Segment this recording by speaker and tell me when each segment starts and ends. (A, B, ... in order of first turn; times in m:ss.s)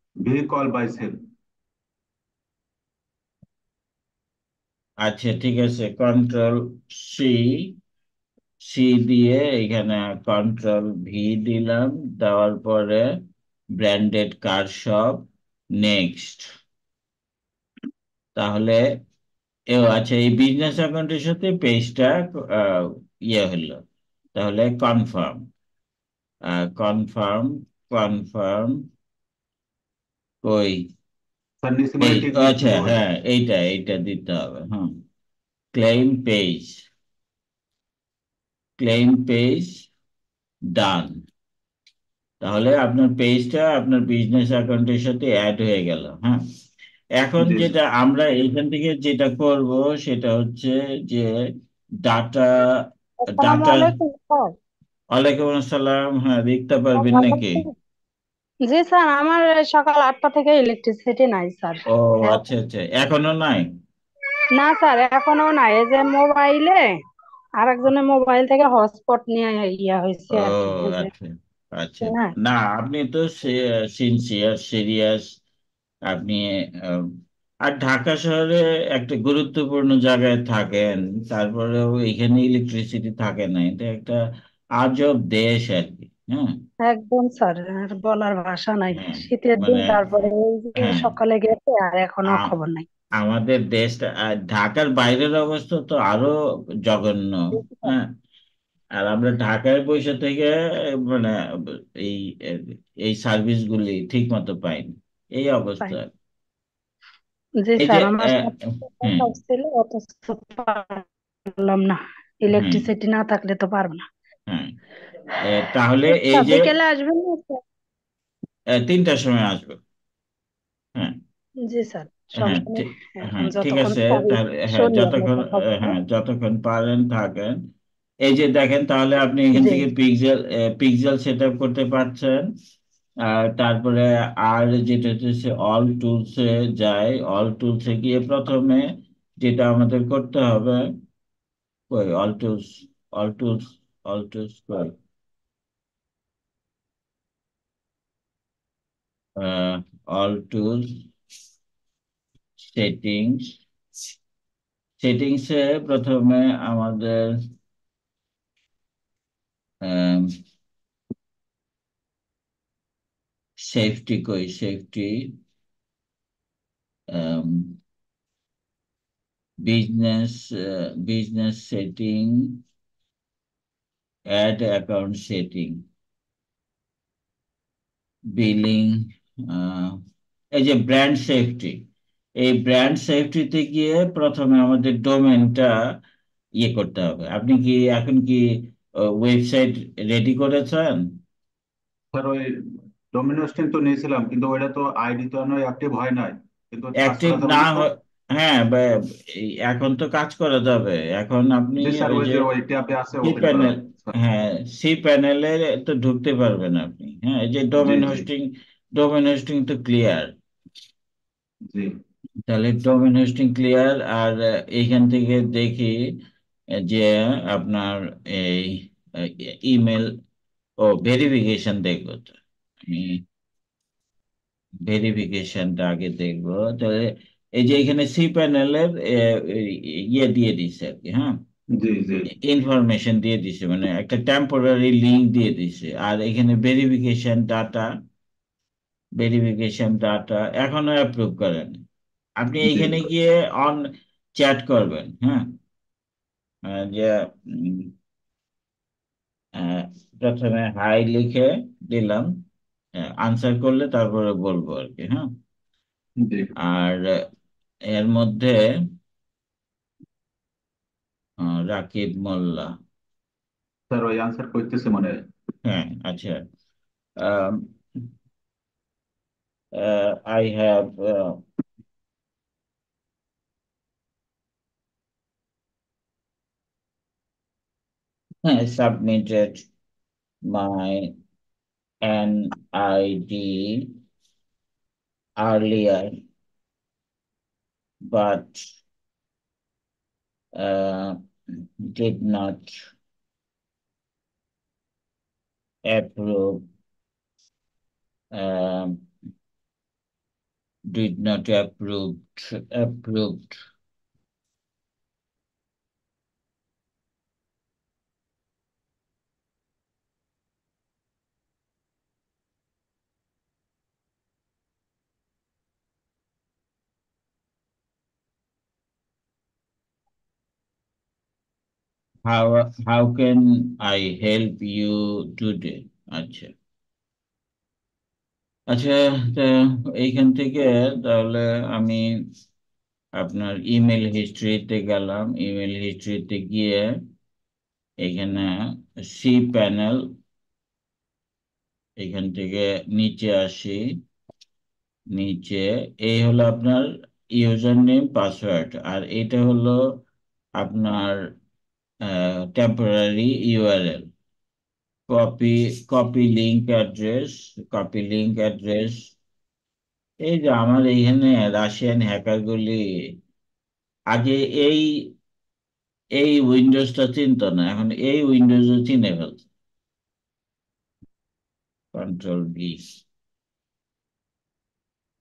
0:00.2-0:01.2 A
0:05.0-0:07.7 B
0:08.6-0:13.1 B
0:13.8-0:16.4 B
0:18.4-0:18.8 B
0:19.7-0:23.8 B
0:24.3-0:25.5 B
0:26.5-0:28.8 B
0:30.4-0:30.9 B
0:31.6-0:33.0 A
0:32.0-0:35.0 B
0:35.7-0:36.8 B
0:38.8-0:39.7 B
0:40.8-0:41.1 B
0:42.4-0:46.4 B
0:47.2-0:51.3 B
0:47.4-0:47.7 A
0:52.0-0:52.6 B
0:53.2-0:54.5 C
0:53.4-0:53.9 B
0:55.1-0:57.6 B
0:57.0-0:57.7 C
0:58.7-1:02.4 C
1:01.9-1:03.7 B
1:04.5-1:06.9 C
1:07.6-1:11.1 C
1:10.3-1:15.3 B
1:12.0-1:12.3 C
1:16.1-1:17.1 B
1:17.6-1:24.2 B
1:24.8-1:26.5 B
1:26.8-1:32.8 C
1:28.9-1:30.0 B
1:30.8-1:31.2 B
1:32.3-1:32.5 B
1:33.2-1:36.3 B
1:36.9-1:37.3 B
1:37.6-1:37.9 C
1:39.0-1:41.4 B
1:42.0-1:46.1 B
1:47.6-1:54.0 C
1:47.8-1:48.5 B
1:49.0-1:49.3 B
1:52.5-1:52.9 B
1:54.5-1:54.7 B
1:55.4-1:56.7 B
1:56.1-1:57.6 C
1:58.7-1:59.8 B
2:01.6-2:06.0 C
2:02.4-2:07.6 B
2:08.2-2:12.5 B
2:09.5-2:09.8 C
2:13.2-2:18.9 B
2:19.4-2:20.8 B
2:21.9-2:24.9 B
2:29.4-2:31.0 B
2:32.6-2:33.6 B
2:35.0-2:37.3 B
2:39.8-2:40.3 B
2:43.6-2:45.3 B
2:47.1-2:47.8 B
2:49.6-2:52.6 B
2:54.3-2:55.8 B
2:58.3-3:00.0 B
3:00.5-3:01.8 B
3:02.4-3:05.7 B
3:06.6-3:11.2 B
3:12.1-3:12.5 A
3:13.1-3:17.9 A
3:17.0-3:22.5 B
3:21.8-3:24.1 A
3:23.2-3:30.3 B
3:27.8-3:28.2 A
3:32.5-3:36.0 B
3:36.8-3:40.1 B
3:40.8-3:43.2 B
3:44.9-3:51.4 B
3:51.8-3:52.3 A
3:52.4-3:57.9 B
3:59.2-4:01.8 B
4:02.4-4:03.9 B
4:02.6-4:03.1 A
4:04.4-4:05.5 B
4:06.7-4:07.9 B
4:09.6-4:12.3 B
4:13.0-4:15.3 B
4:16.2-4:16.5 A
4:16.6-4:17.1 B
4:17.9-4:18.6 B
4:21.4-4:22.7 B
4:23.9-4:25.2 A
4:25.6-4:26.4 B
4:27.2-4:27.7 B
4:29.7-4:31.4 B
4:38.4-4:39.6 B
4:40.4-4:41.1 B
4:42.0-4:43.9 B
4:45.4-4:46.1 B
4:48.0-4:48.6 B
4:50.5-4:51.2 B
4:51.9-4:52.8 B
4:55.9-4:56.6 B
4:58.3-4:59.0 B
5:00.9-5:03.6 B
5:22.2-5:26.5 B
5:28.7-5:32.0 B
5:33.2-5:36.9 B
5:38.0-5:38.5 B
5:39.0-5:40.0 B
5:42.0-5:43.8 B
5:45.1-5:49.8 B
5:50.6-5:51.2 B
5:52.1-5:54.1 B
5:55.1-5:59.1 B
6:00.2-6:02.8 B
6:04.1-6:04.9 B
6:06.2-6:09.4 B
6:11.9-6:13.0 B